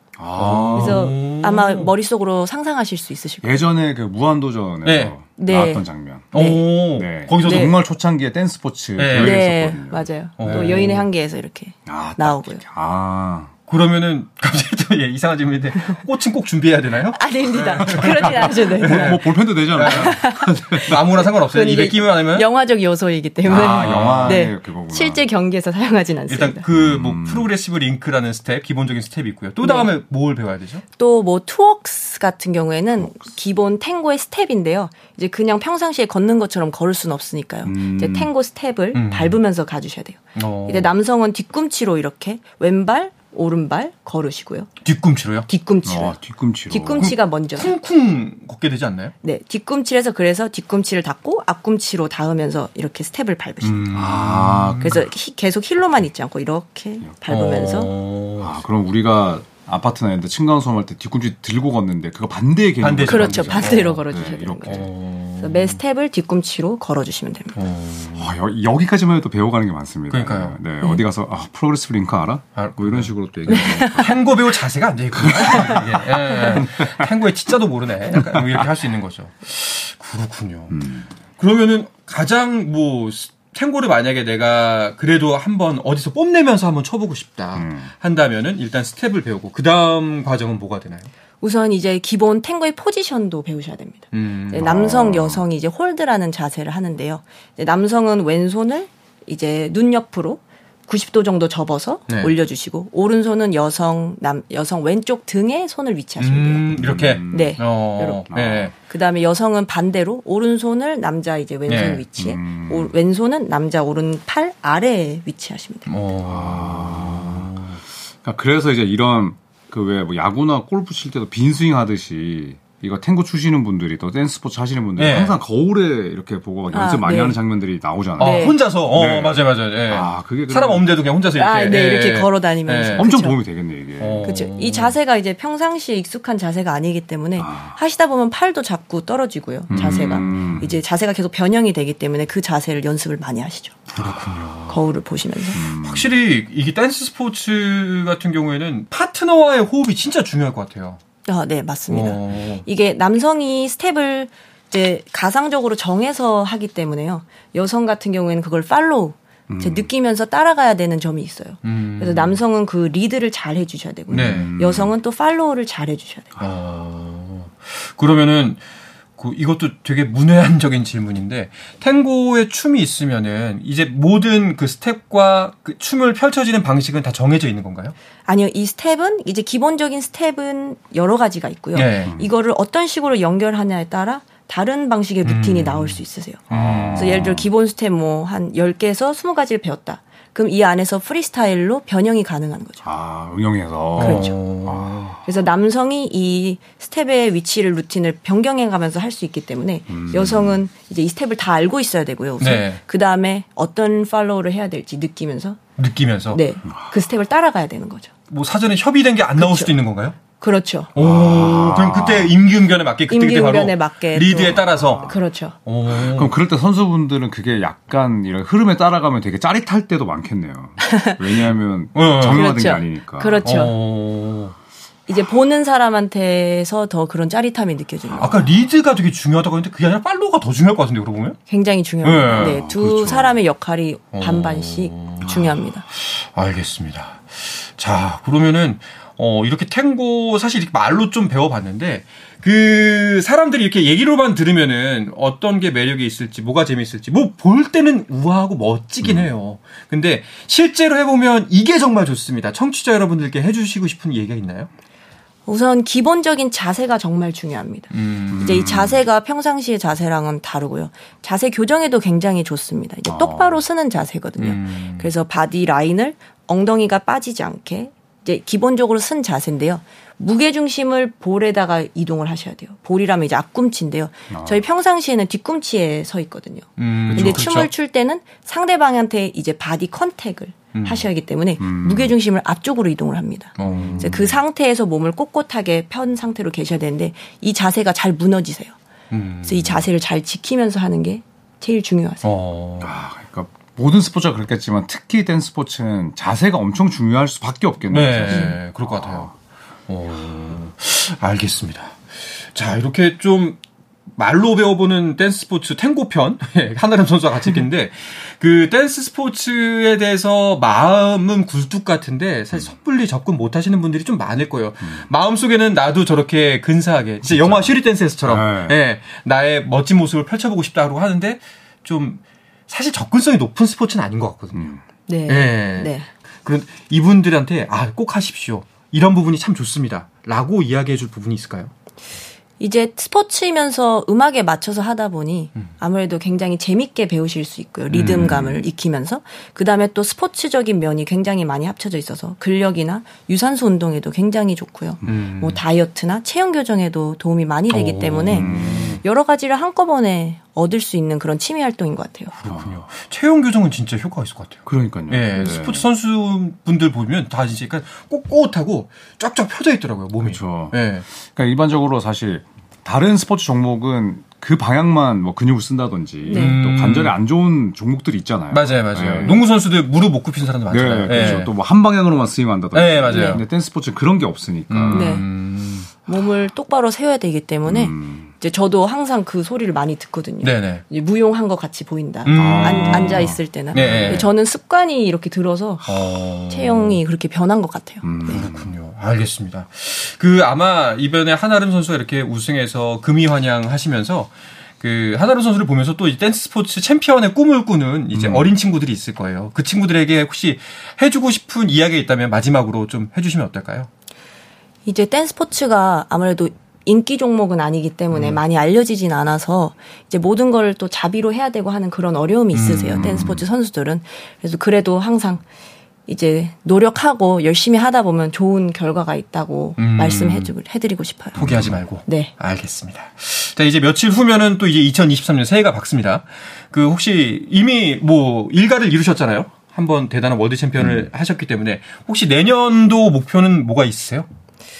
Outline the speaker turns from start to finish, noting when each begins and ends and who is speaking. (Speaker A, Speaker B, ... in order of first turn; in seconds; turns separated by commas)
Speaker A: 0.2-1.1, Speaker B: 0.3-1.9, Speaker C: 0.7-3.6, Speaker A: 3.4-6.4, Speaker B: 4.8-5.1, Speaker C: 5.4-6.7, Speaker B: 6.3-7.8, Speaker A: 6.9-10.9, Speaker C: 7.4-7.7, Speaker B: 9.0-9.4, Speaker C: 9.1-12.6, Speaker B: 10.4-11.1, Speaker A: 11.8-13.5, Speaker B: 13.7-20.2, Speaker C: 17.1-19.2, Speaker A: 18.0-21.2, Speaker C: 19.8-26.6, Speaker B: 20.7-22.5, Speaker A: 23.4-25.2, Speaker B: 23.5-24.4, Speaker B: 26.3-30.8, Speaker A: 26.7-27.5, Speaker C: 29.6-29.9, Speaker C: 31.0-44.7, Speaker A: 37.6-38.3, Speaker B: 38.9-39.4, Speaker B: 40.3-40.9, Speaker B: 44.8-45.5, Speaker C: 45.5-46.2, Speaker A: 45.8-47.1, Speaker C: 46.7-47.7, Speaker B: 47.0-49.1, Speaker C: 49.2-54.1, Speaker B: 53.6-55.0, Speaker A: 53.9-55.0, Speaker C: 54.8-57.9, Speaker B: 57.3-58.5, Speaker A: 58.4-64.9, Speaker B: 62.8-64.0, Speaker C: 63.0-64.9, Speaker B: 64.6-65.8, Speaker C: 65.4-67.5, Speaker B: 67.5-68.3, Speaker A: 68.2-74.2, Speaker B: 70.1-70.6, Speaker B: 72.5-80.8, Speaker C: 73.5-74.1, Speaker A: 75.2-76.9, Speaker A: 78.3-78.6, Speaker A: 80.7-81.1, Speaker B: 81.4-91.1, Speaker A: 87.5-87.9, Speaker C: 91.4-106.8, Speaker B: 94.1-94.7, Speaker A: 94.5-95.4, Speaker B: 106.2-108.7, Speaker A: 106.7-107.5, Speaker C: 107.3-115.9, Speaker A: 108.3-108.7, Speaker B: 111.7-112.0, Speaker A: 112.2-112.9, Speaker B: 115.9-117.7, Speaker A: 116.2-117.6, Speaker A: 118.2-130.9, Speaker B: 125.0-125.3, Speaker C: 126.7-127.4, Speaker C: 128.2-128.6, Speaker B: 128.2-133.1, Speaker C: 131.3-133.4, Speaker A: 132.9-134.4, Speaker B: 134.0-134.9, Speaker C: 134.2-143.8, Speaker A: 137.4-137.8, Speaker A: 139.7-140.7, Speaker B: 139.8-140.6, Speaker B: 143.9-144.8, Speaker C: 144.7-145.6, Speaker A: 145.5-146.1, Speaker B: 145.5-151.0, Speaker C: 151.2-166.4, Speaker B: 151.9-152.6, Speaker A: 159.5-159.9, Speaker B: 161.6-162.4, Speaker B: 164.1-164.5, Speaker A: 164.1-164.9, Speaker B: 166.4-168.6, Speaker B: 169.2-177.9, Speaker C: 178.2-186.4, Speaker B: 181.7-182.1, Speaker B: 185.2-187.2, Speaker A: 186.5-187.4, Speaker C: 186.9-192.8, Speaker A: 192.8-195.2, Speaker B: 194.0-195.1, Speaker C: 194.0-194.3, Speaker C: 195.2-205.6, Speaker A: 199.9-200.6, Speaker B: 202.4-202.8, Speaker B: 205.8-206.4, Speaker C: 206.3-208.1, Speaker B: 208.3-210.2, Speaker C: 209.4-209.7, Speaker C: 210.4-210.9, Speaker B: 210.9-215.1, Speaker A: 210.9-212.3, Speaker C: 213.1-215.5, Speaker A: 214.6-215.2, Speaker B: 215.7-216.3, Speaker A: 215.9-223.5, Speaker C: 220.8-221.2, Speaker B: 221.9-222.6, Speaker C: 222.3-223.8, Speaker B: 223.4-224.5, Speaker C: 225.1-228.4, Speaker B: 228.2-231.4, Speaker C: 231.5-235.8, Speaker B: 232.0-232.6, Speaker A: 232.3-233.4, Speaker B: 234.1-254.7, Speaker A: 249.0-249.3, Speaker C: 255.5-288.7, Speaker B: 257.9-258.9, Speaker A: 258.3-258.9, Speaker A: 263.1-263.6, Speaker B: 264.4-265.1, Speaker A: 274.3-274.6, Speaker B: 276.8-277.7, Speaker A: 277.1-277.5, Speaker B: 280.7-281.1, Speaker A: 281.6-282.1, Speaker B: 283.6-284.3, Speaker A: 283.6-284.3, Speaker B: 289.1-289.9, Speaker C: 289.4-292.3, Speaker B: 292.2-292.9, Speaker A: 292.8-299.3, Speaker B: 297.9-299.3, Speaker B: 299.9-303.6, Speaker B: 304.1-324.8, Speaker A: 317.2-318.8, Speaker A: 324.5-324.8, Speaker C: 325.1-326.1, Speaker B: 325.3-331.7, Speaker C: 332.6-352.3, Speaker B: 337.9-338.5, Speaker A: 338.2-338.4, Speaker B: 345.0-345.6, Speaker B: 347.7-349.0, Speaker A: 348.3-349.0, Speaker B: 352.4-361.0, Speaker A: 354.6-355.9, Speaker A: 360.2-369.4, Speaker C: 366.3-366.6, Speaker B: 366.3-367.2, Speaker B: 368.5-371.5, Speaker A: 370.7-375.2, Speaker B: 372.7-373.4, Speaker C: 373.1-373.4, Speaker B: 374.7-375.9, Speaker C: 374.9-375.3, Speaker C: 376.1-388.4, Speaker A: 377.6-378.3, Speaker B: 380.4-380.8, Speaker B: 382.2-384.2, Speaker A: 382.4-384.2, Speaker B: 385.9-387.0, Speaker A: 388.0-388.7, Speaker B: 388.3-403.9, Speaker A: 398.1-398.5, Speaker C: 404.9-415.4, Speaker B: 412.5-413.3, Speaker A: 413.0-413.4, Speaker C: 416.1-421.4, Speaker B: 419.8-420.5, Speaker B: 421.4-434.2, Speaker A: 421.4-421.7, Speaker C: 422.0-422.3, Speaker A: 430.8-431.1